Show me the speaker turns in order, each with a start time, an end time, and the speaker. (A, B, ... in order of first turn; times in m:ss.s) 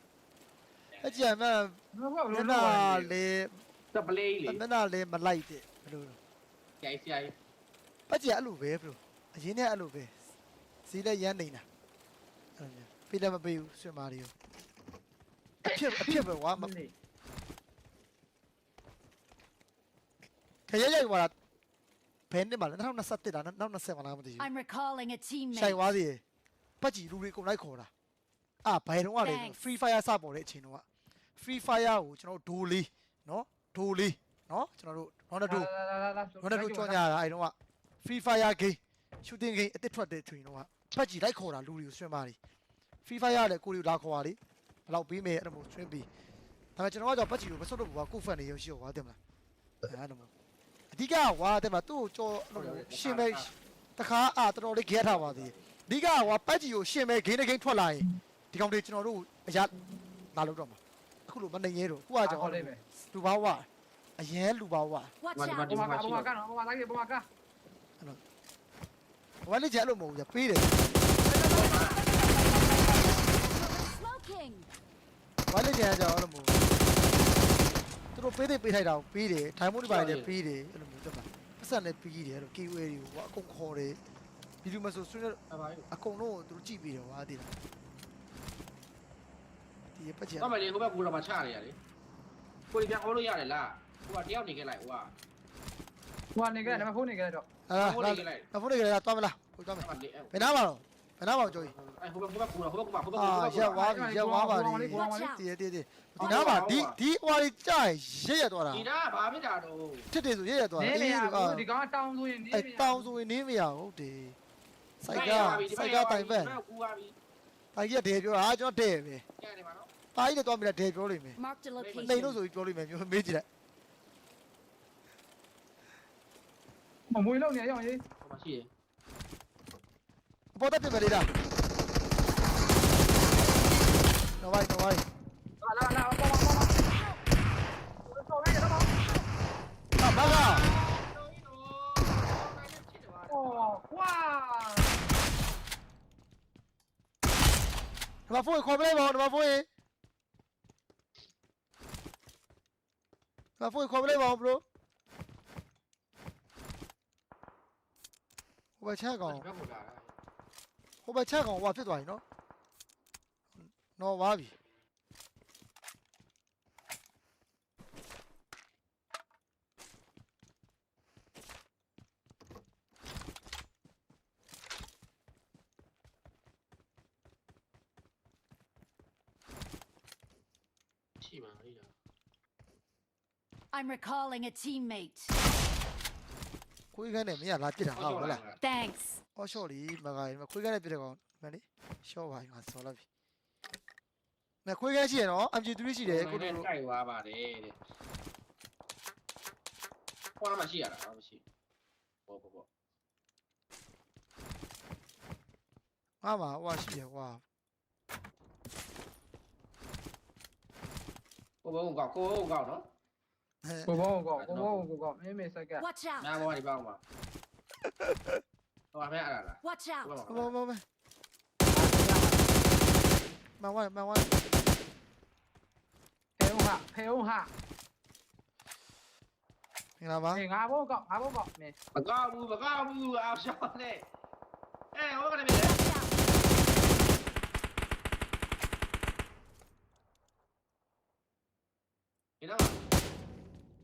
0:01.0-0:01.2 A
0:01.0-0:03.6 B
0:01.9-0:03.1 C
0:03.9-0:04.6 A
0:04.5-0:06.2 B
0:06.8-0:07.3 A
0:08.1-0:10.2 B
0:10.9-0:11.6 B
0:12.6-0:14.3 B
0:15.6-0:16.9 C
0:15.7-0:16.7 B
0:20.7-0:21.3 B
0:22.3-0:24.5 B
0:24.4-0:25.8 D
0:25.5-0:26.2 B
0:26.8-0:27.9 B
0:28.6-0:30.8 B
0:29.2-0:29.6 D
0:31.4-0:35.7 B
0:35.5-0:37.0 C
0:36.4-0:42.4 B
0:43.0-0:46.1 B
0:46.8-0:49.2 B
0:49.9-0:50.3 B
0:50.9-0:59.8 B
0:52.6-0:53.5 A
0:55.0-0:55.7 A
1:00.3-1:05.2 B
1:02.2-1:02.8 C
1:05.2-1:05.7 D
1:05.3-1:06.3 A
1:05.7-1:07.3 C
1:09.4-1:10.8 B
1:11.2-1:13.1 C
1:11.5-1:12.0 A
1:13.1-1:14.7 D
1:15.5-1:16.7 B
1:18.2-1:24.0 B
1:19.8-1:20.4 A
1:24.6-1:27.6 B
1:25.5-1:25.9 A
1:30.0-1:30.6 B
1:30.4-1:31.8 A
1:32.7-1:35.1 A
1:36.4-1:37.5 C
1:37.7-1:41.7 B
1:37.7-1:38.5 A
1:39.8-1:40.5 A
1:41.4-1:43.8 A
1:43.1-1:48.9 B
1:43.8-1:45.3 C
1:44.9-1:45.4 D
1:46.2-1:47.0 A
1:48.7-1:50.1 A
1:50.1-1:51.7 B
1:50.8-1:53.1 C
1:52.5-1:54.4 B
1:55.0-1:56.6 B
1:55.1-1:57.2 A
1:57.7-1:59.2 B
1:59.4-1:59.9 A
2:00.2-2:01.4 B
2:01.4-2:02.3 D
2:01.8-2:02.4 A
2:02.0-2:03.5 B
2:07.1-2:08.0 C
2:08.2-2:08.7 A
2:10.6-2:11.3 B
2:14.4-2:15.1 B
2:15.6-2:16.9 C
2:18.0-2:19.0 C
2:20.0-2:20.7 B
2:20.1-2:23.8 A
2:23.3-2:24.9 C
2:28.3-2:29.7 B
2:33.6-2:34.6 B
2:38.8-2:39.5 B
2:39.2-2:40.1 A
2:41.0-2:42.2 B
2:43.6-2:44.6 B
3:01.2-3:01.9 A
3:03.7-3:05.3 D
3:06.9-3:08.4 B
3:08.0-3:08.6 A
3:08.6-3:09.2 D
3:09.4-3:13.0 B
3:14.6-3:16.7 B
3:16.0-3:17.8 A
3:20.4-3:21.4 A
3:22.3-3:22.7 A
3:26.2-3:27.4 B
3:31.6-3:32.9 A
3:33.6-3:34.0 B
3:33.9-3:35.9 C
3:34.4-3:34.9 A
3:35.8-3:36.3 D
3:36.2-3:37.0 A
3:38.0-3:38.4 B
3:38.9-3:40.5 A
3:39.6-3:40.1 D
3:40.3-3:40.8 B
3:41.7-3:42.5 C
3:43.6-3:44.3 B
3:46.4-3:47.5 C
3:50.0-3:50.4 B
3:50.3-3:51.8 C
3:52.0-3:54.0 A
3:54.9-3:55.8 A
3:55.7-3:56.3 D
4:02.4-4:02.8 A